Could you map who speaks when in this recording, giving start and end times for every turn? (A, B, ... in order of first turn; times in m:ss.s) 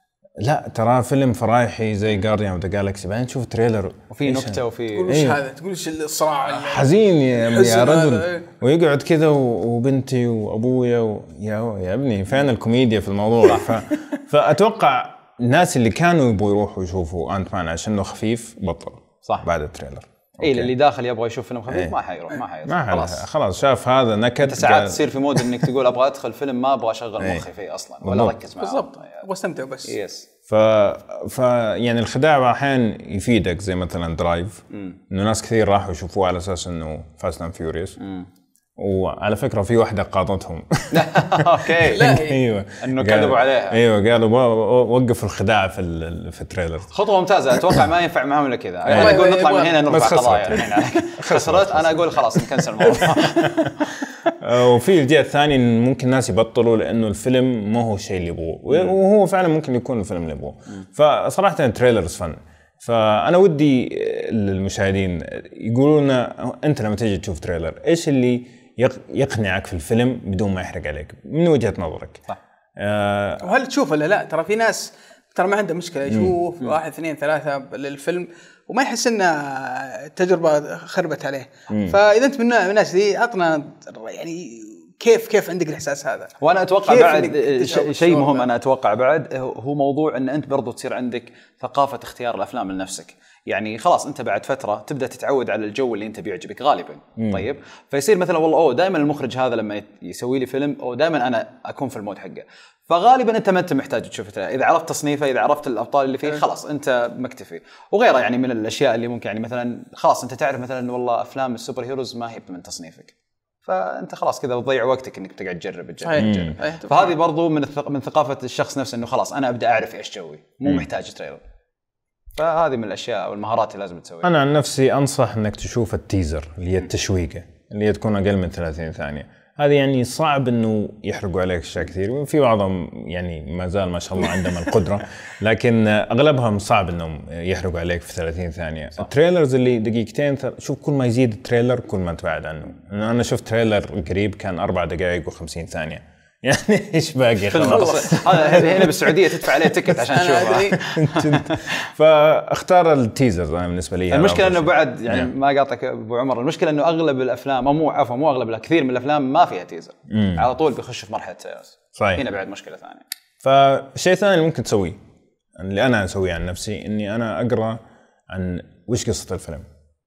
0:00.4-0:05.4 A
0:04.1-0:05.1 B
0:04.9-0:08.4 C
0:06.5-0:20.7 A
0:20.4-0:23.2 B
0:22.7-0:25.7 A
0:24.4-0:29.2 B
0:27.2-0:27.4 A
0:28.0-0:28.4 A
0:28.6-0:29.9 C
0:29.8-0:30.3 B
0:30.5-0:38.0 A
0:34.7-0:35.0 B
0:38.0-0:38.3 B
0:38.8-0:46.9 A
0:40.9-0:42.2 B
0:41.9-0:42.5 C
0:42.8-0:43.8 B
0:46.9-0:53.9 B
0:48.9-0:49.2 A
0:48.9-0:49.9 C
0:49.9-0:53.8 A
0:54.3-1:12.2 A
1:12.8-1:13.5 A
1:13.4-1:28.5 C
1:16.1-1:16.4 A
1:21.7-1:22.0 A
1:26.4-1:53.1 B
1:37.2-1:37.4 A
1:53.6-2:01.4 B
1:56.0-1:57.1 C
1:56.2-1:56.6 A
2:02.4-2:04.3 B
2:04.2-2:29.5 A
2:27.5-2:31.8 B
2:27.7-2:28.7 C
2:30.1-2:30.8 C
2:30.7-2:35.3 A
2:34.1-2:43.0 B
2:40.1-2:40.4 A
2:42.0-2:42.2 A
2:43.4-2:45.0 A
2:45.6-2:47.8 A
2:48.3-2:49.6 A